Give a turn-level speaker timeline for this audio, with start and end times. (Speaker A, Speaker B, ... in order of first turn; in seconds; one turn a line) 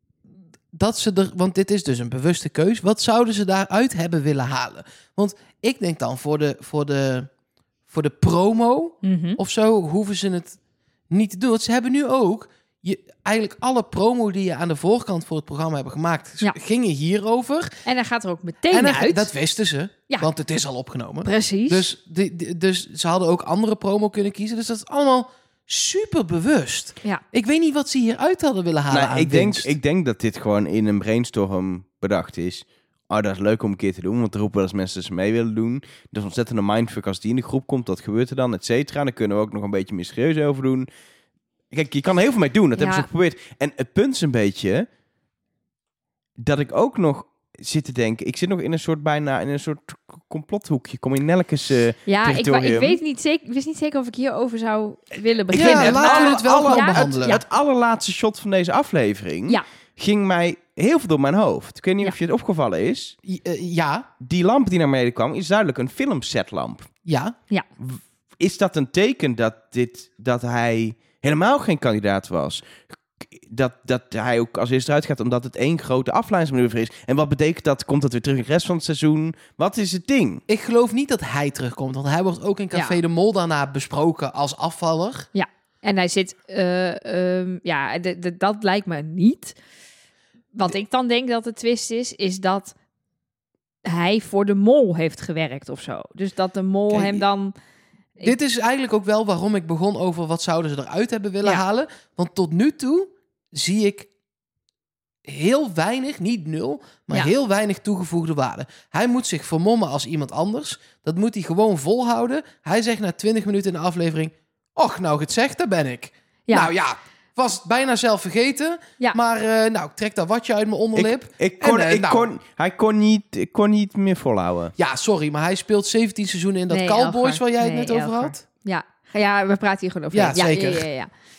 Speaker A: 0.7-7.3
Speaker A: 7.9-10.6
Speaker B: 9.0-9.4
Speaker A: 11.1-17.7
Speaker B: 17.8-19.3
Speaker A: 18.7-29.7
Speaker B: 21.2-21.9
Speaker C: 28.9-40.9
Speaker C: 41.7-44.9
Speaker B: 42.8-43.0
Speaker C: 46.4-53.0
Speaker B: 52.1-57.4
Speaker A: 55.5-57.4
Speaker C: 55.5-63.1
Speaker A: 63.2-64.1
Speaker C: 64.2-66.9
Speaker A: 67.0-67.3
Speaker C: 67.8-80.4
Speaker A: 80.5-85.3
Speaker B: 82.7-83.0
Speaker B: 85.3-89.5
Speaker B: 90.5-92.7
Speaker B: 93.8-97.5
Speaker A: 96.9-97.2
Speaker A: 98.2-104.1
Speaker A: 105.2-122.3
Speaker C: 120.9-124.8
Speaker A: 124.8-128.4
Speaker B: 126.7-131.1
Speaker A: 130.1-130.9